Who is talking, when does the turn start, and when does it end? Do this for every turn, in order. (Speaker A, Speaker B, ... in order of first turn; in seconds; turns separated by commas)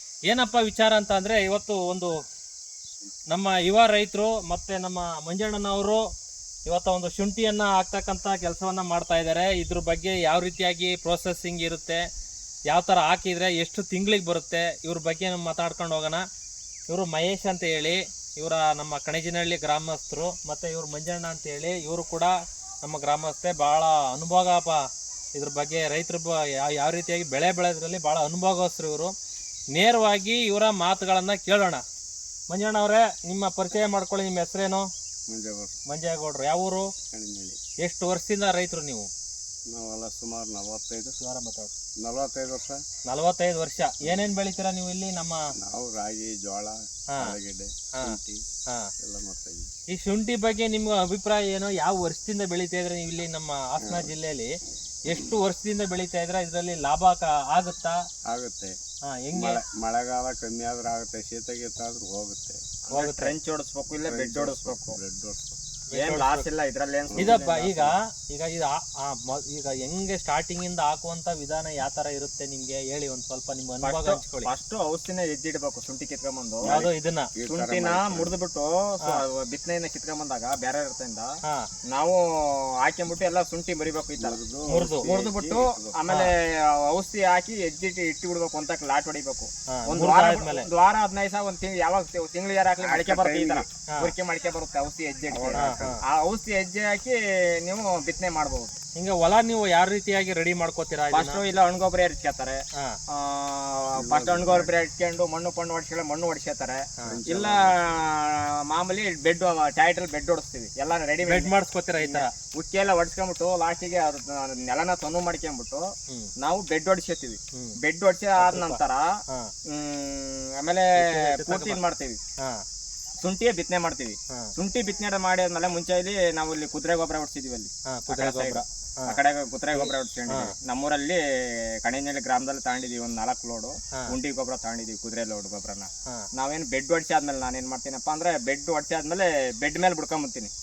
Speaker A: 0.3-2.1, Speaker A: 3.3-6.0, Speaker A: 6.7-12.0, Speaker A: 12.7-16.2, Speaker A: 16.9-24.8, Speaker A: 25.4-29.1, Speaker A: 29.7-31.8, Speaker A: 32.5-34.9, Speaker B: 35.3-35.7, Speaker A: 35.9-36.9, Speaker B: 37.1-37.6, Speaker A: 37.8-39.1, Speaker B: 39.7-41.2, Speaker A: 41.2-41.7, Speaker B: 42.0-42.8, Speaker A: 43.1-45.4, Speaker B: 44.0-44.3, Speaker B: 45.6-48.4, Speaker A: 47.1-47.4, Speaker B: 49.0-49.7, Speaker A: 49.9-54.5, Speaker B: 53.8-54.1, Speaker A: 55.0-58.0, Speaker B: 58.3-58.8, Speaker A: 59.1-59.6, Speaker B: 59.3-62.6, Speaker C: 62.9-65.0, Speaker A: 62.9-63.3, Speaker B: 64.1-65.6, Speaker A: 65.9-66.5, Speaker C: 66.0-67.5, Speaker B: 67.1-67.9, Speaker A: 67.2-74.5, Speaker C: 73.8-76.8, Speaker B: 76.6-78.3, Speaker A: 76.7-77.3, Speaker C: 77.5-81.3, Speaker C: 81.9-84.4, Speaker B: 84.2-86.0, Speaker A: 84.7-85.1, Speaker C: 85.0-98.7, Speaker A: 89.7-90.7, Speaker B: 92.8-93.7, Speaker B: 95.3-96.0, Speaker A: 95.6-95.9, Speaker A: 99.0-101.4, Speaker C: 101.1-102.6, Speaker C: 103.1-119.2, Speaker B: 104.0-104.7, Speaker B: 107.0-107.9, Speaker A: 111.3-112.3, Speaker A: 118.4-119.5, Speaker C: 119.7-122.2, Speaker A: 121.0-121.8, Speaker C: 123.2-140.5, Speaker A: 127.9-129.2, Speaker A: 129.7-130.5